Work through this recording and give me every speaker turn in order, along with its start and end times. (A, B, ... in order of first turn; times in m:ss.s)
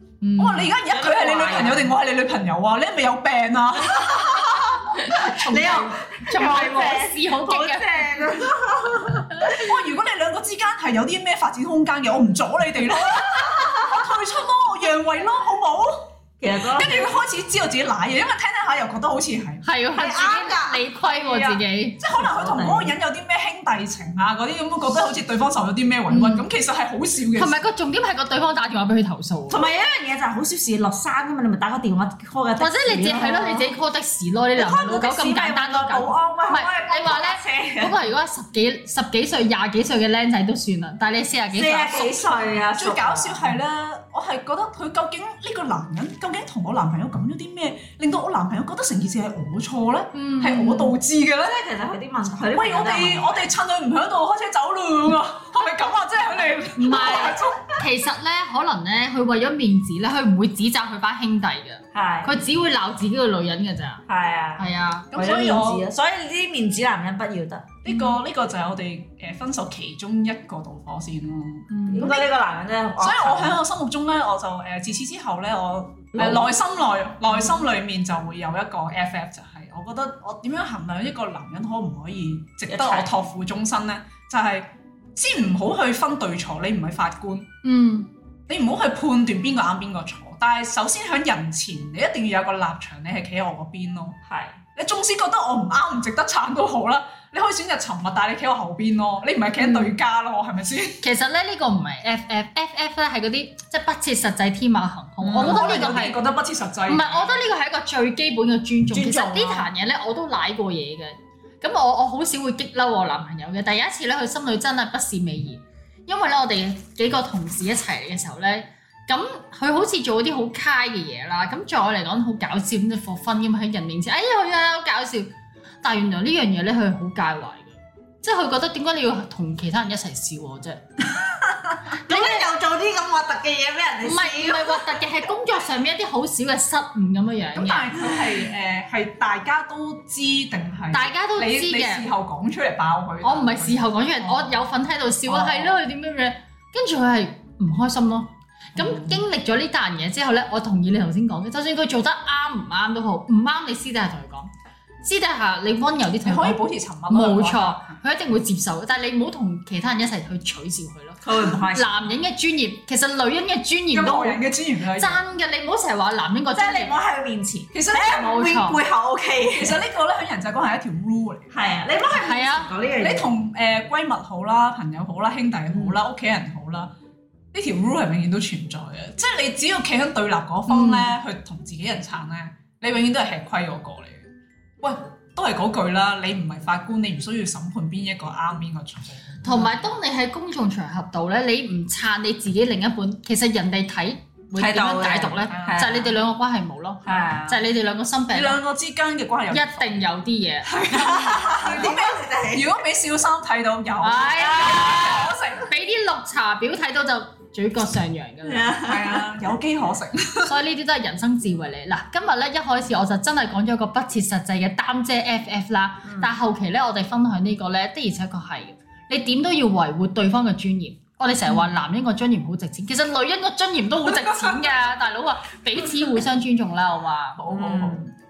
0:00.2-0:00.7 A
0:00.4-0:04.7 B
0:00.9-0:01.9 C
0:03.8-0:09.6 C
0:04.9-0:08.3 A
0:09.3-0:09.6 A
0:09.5-0:19.6 B
0:13.0-0:14.2 C
0:16.4-0:17.2 C
0:19.6-0:22.0 A
0:20.0-0:20.8 C
0:21.0-0:27.6 B
0:22.1-0:23.0 C
0:26.1-0:26.4 A
0:27.4-0:29.6 A
0:29.5-0:33.8 C
0:32.6-0:42.2 A
0:34.6-0:38.0 C
0:41.5-0:43.6 C
0:42.8-0:51.6 B
0:50.1-0:51.0 A
0:51.4-0:53.5 C
0:52.5-0:57.7 B
0:56.8-1:04.0 A
0:56.9-0:57.6 C
1:01.9-1:02.4 C
1:04.1-1:07.8 C
1:04.6-1:05.1 A
1:05.1-1:05.9 B
1:07.8-1:12.3 B
1:07.9-1:08.2 A
1:11.7-1:12.1 A
1:11.9-1:13.6 C
1:13.0-1:27.5 B
1:16.2-1:16.5 C
1:22.7-1:23.2 C
1:27.6-1:28.1 A
1:28.5-1:34.2 B
1:34.2-1:34.6 C
1:34.8-1:41.0 B
1:39.6-1:39.9 A
1:41.0-1:46.2 A
1:45.2-1:45.7 C
1:45.3-1:47.4 B
1:46.9-2:05.3 A
1:48.9-1:49.7 B
2:05.8-2:10.9 A
2:11.9-2:15.1 C
2:12.0-2:12.4 A
2:14.0-2:18.0 A
2:17.6-2:24.6 B
2:20.9-2:22.1 A
2:23.2-2:34.5 A
2:28.8-2:29.2 B
2:35.0-2:44.4 A
2:36.2-2:38.0 B
2:41.2-2:41.9 C
2:43.9-2:45.2 B
2:45.0-2:46.9 A
2:46.6-2:49.8 C
2:47.7-2:48.3 B
2:48.0-2:48.8 A
2:49.6-2:51.6 B
2:51.5-2:53.3 C
2:52.1-2:52.7 A
2:53.0-2:56.9 B
2:55.7-2:56.0 C
2:57.5-3:04.2 B
3:00.7-3:01.1 A
3:04.8-3:09.7 B
3:09.4-3:18.6 A
3:09.5-3:09.7 C
3:14.6-3:16.2 C
3:15.5-3:15.9 B
3:17.1-3:17.6 C
3:18.3-3:20.0 B
3:19.5-3:21.5 A
3:20.7-3:25.7 B
3:20.9-3:22.7 C
3:24.0-3:28.7 A
3:24.4-3:25.3 C
3:28.4-3:29.3 C
3:28.8-3:30.6 B
3:30.5-3:47.4 A
3:36.0-3:36.3 C
3:44.0-3:44.9 B
3:47.4-3:48.1 B
3:47.5-3:48.1 C